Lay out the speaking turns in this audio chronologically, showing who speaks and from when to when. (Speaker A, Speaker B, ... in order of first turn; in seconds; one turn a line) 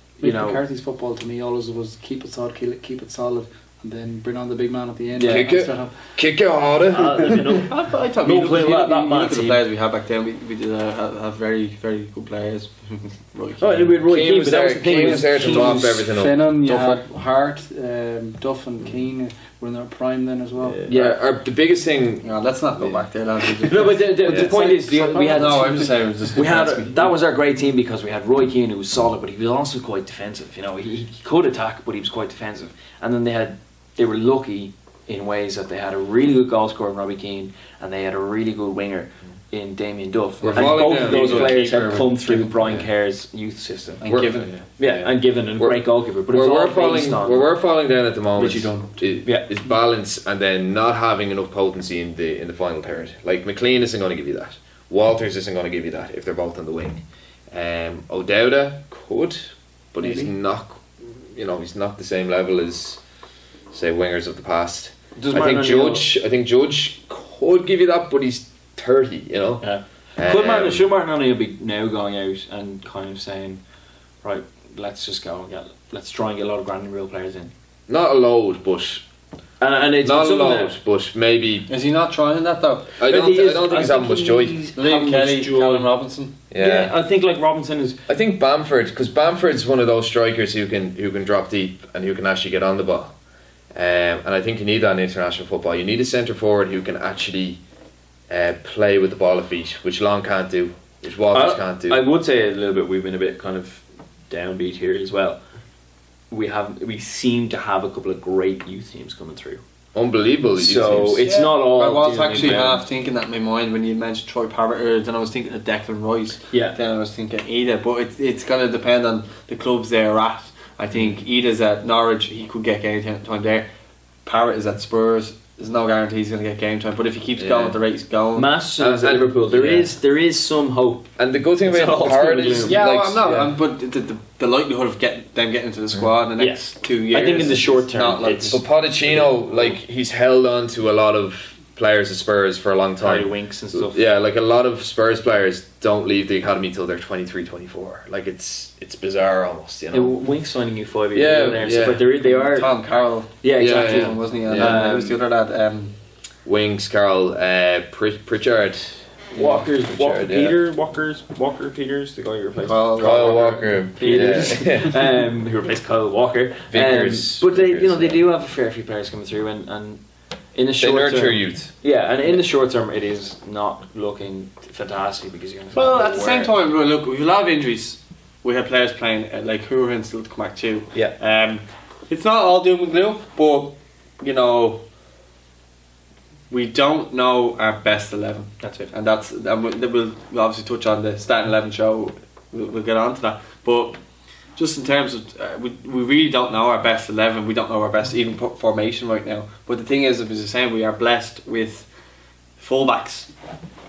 Speaker A: 0.2-0.6
Speaker B: 0.2-6.1
Speaker A: 5.1-5.5
Speaker C: 5.3-7.6
Speaker A: 6.9-9.6
Speaker D: 7.9-14.0
Speaker A: 13.6-15.9
Speaker C: 14.1-16.4
Speaker B: 14.9-20.8
Speaker D: 16.6-17.1
Speaker D: 20.8-21.2
Speaker C: 20.9-23.1
Speaker D: 22.2-27.1
Speaker A: 23.6-47.5
Speaker C: 24.2-24.5
Speaker B: 24.4-26.7
Speaker C: 40.4-42.0
Speaker D: 40.4-42.8
Speaker D: 44.0-44.5
Speaker C: 44.0-63.0
Speaker D: 48.4-49.0
Speaker B: 60.0-60.3
Speaker C: 63.7-70.8
Speaker A: 65.2-66.1
Speaker A: 69.6-73.6
Speaker A: 74.2-77.5
Speaker C: 77.9-79.0
Speaker A: 79.6-80.8
Speaker C: 80.0-81.7
Speaker D: 81.7-83.0
Speaker C: 83.0-84.7
Speaker A: 83.0-85.9
Speaker D: 84.8-86.3
Speaker C: 86.5-87.0
Speaker A: 86.6-88.0
Speaker C: 88.1-97.6
Speaker C: 98.3-102.0
Speaker A: 101.3-105.4
Speaker A: 106.3-109.6
Speaker C: 110.0-111.3
Speaker A: 110.6-112.8
Speaker D: 111.3-123.7
Speaker A: 116.5-116.8
Speaker D: 124.2-128.5
Speaker C: 127.4-127.8
Speaker A: 128.4-133.4
Speaker C: 128.8-129.9
Speaker C: 131.2-133.5
Speaker D: 132.6-138.7
Speaker A: 136.4-139.8
Speaker C: 138.5-150.2
Speaker A: 143.0-144.0
Speaker A: 149.9-152.8
Speaker C: 151.1-152.0
Speaker D: 152.1-155.9
Speaker A: 153.4-155.2
Speaker C: 153.6-154.8
Speaker C: 156.4-160.6
Speaker A: 159.3-162.8
Speaker D: 162.6-164.8
Speaker C: 163.0-164.9
Speaker A: 164.0-170.0
Speaker C: 166.7-168.2
Speaker A: 170.5-176.5
Speaker C: 170.8-171.8
Speaker D: 175.7-184.8
Speaker D: 186.5-194.0
Speaker A: 188.6-188.9
Speaker D: 194.5-201.9
Speaker D: 202.6-203.3